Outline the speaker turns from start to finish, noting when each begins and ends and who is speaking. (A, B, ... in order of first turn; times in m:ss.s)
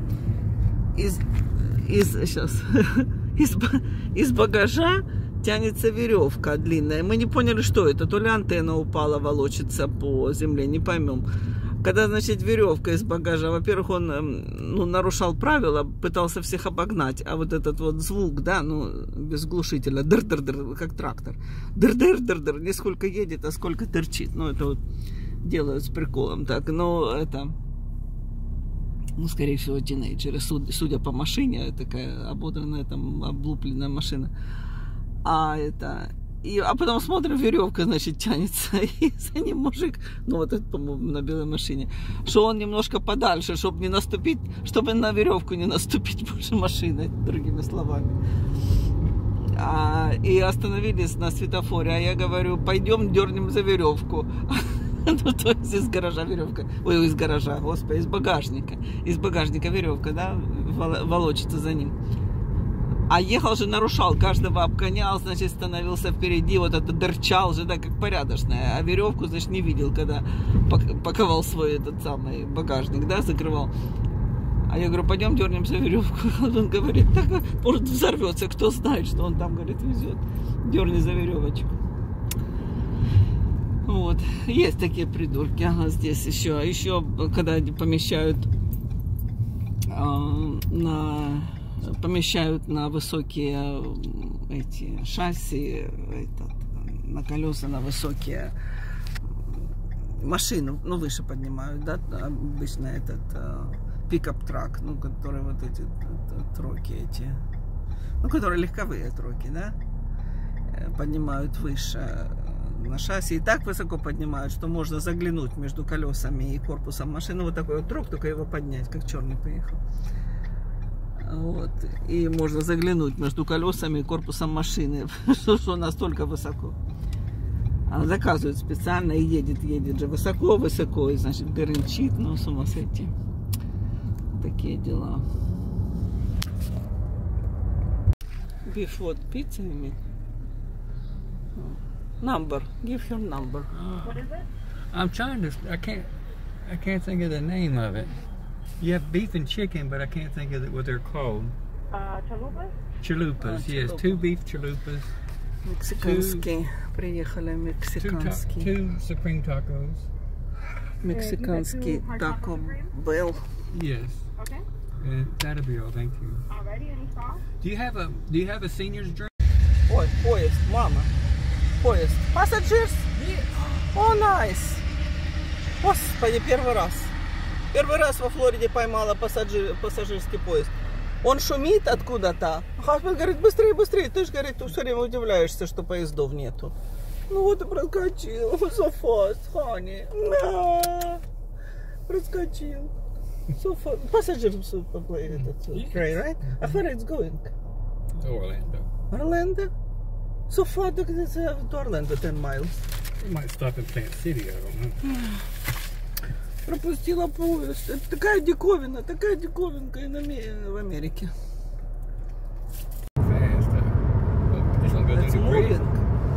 0:00.9-0:11.2 A
0:11.8-0:24.8 A
0:25.4-0:27.6 A
0:29.2-0:34.3 A
0:35.2-0:48.2 A
0:49.5-1:02.0 A
1:03.1-1:13.7 A
1:14.7-1:21.8 A
1:23.8-1:28.5 A
1:29.9-1:38.5 A
1:39.2-1:47.4 A
1:48.2-1:49.8 A
1:50.7-1:59.8 A
2:01.2-2:06.8 A
2:07.9-2:13.1 A
2:14.3-2:15.2 A
2:18.6-2:20.0 A
2:21.6-2:23.7 A
2:23.7-2:24.3 B
2:24.0-2:24.4 C
2:24.9-2:28.1 B
2:28.8-2:31.6 B
2:31.9-2:32.7 C
2:33.0-2:35.1 B
2:33.4-2:34.2 A
2:35.6-2:38.7 A
2:35.9-2:36.5 B
2:38.0-2:40.1 B
2:41.0-2:43.5 A
2:41.1-2:42.8 C
2:43.7-2:44.3 B
2:44.4-2:44.6 C
2:45.0-2:46.4 B
2:46.5-2:47.4 C
2:47.6-2:49.3 B
2:49.9-2:51.1 A
2:51.8-2:53.1 A
2:53.2-2:53.5 B
2:53.9-2:54.9 A
2:55.8-2:57.1 A
2:57.7-3:06.7 A
3:07.3-3:11.2 A
3:12.1-3:12.9 A
3:13.5-3:17.5 A
3:15.3-3:16.8 B
3:18.1-3:18.9 B
3:19.1-3:19.7 A
3:20.5-3:22.8 A
3:23.2-3:25.0 B
3:25.0-3:25.3 A
3:26.6-3:31.3 A
3:33.2-3:35.8 B
3:35.1-3:36.0 A